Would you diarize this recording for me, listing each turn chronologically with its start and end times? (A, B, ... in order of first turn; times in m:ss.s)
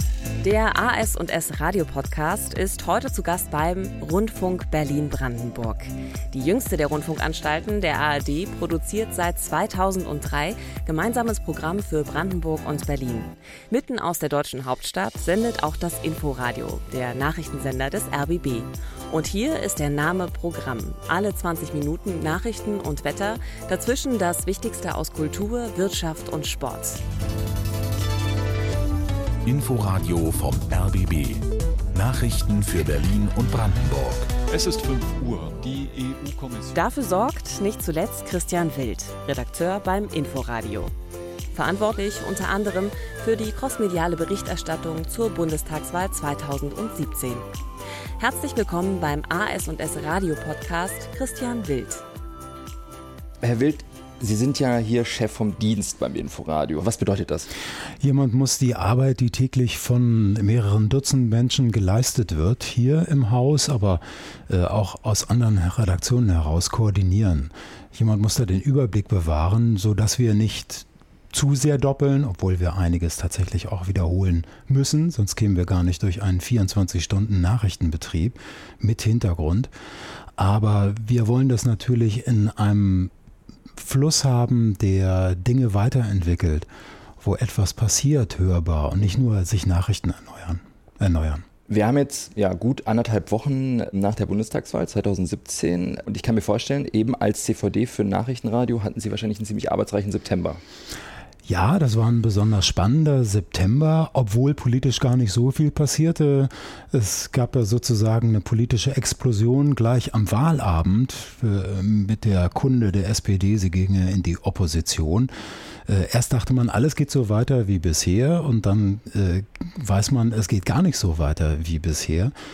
0:00.4-0:27.0 A
0:29.4-0:34.3 B
0:34.5-0:36.8 C
0:36.7-0:40.9 A
0:41.5-0:47.4 A
0:48.2-0:52.0 A
0:53.4-0:57.5 D
0:58.0-1:19.7 E
1:20.4-1:23.1 E
1:23.8-1:26.7 E
1:27.2-1:31.4 E
1:31.7-1:40.6 D
1:41.4-1:55.3 E
1:55.9-2:02.3 E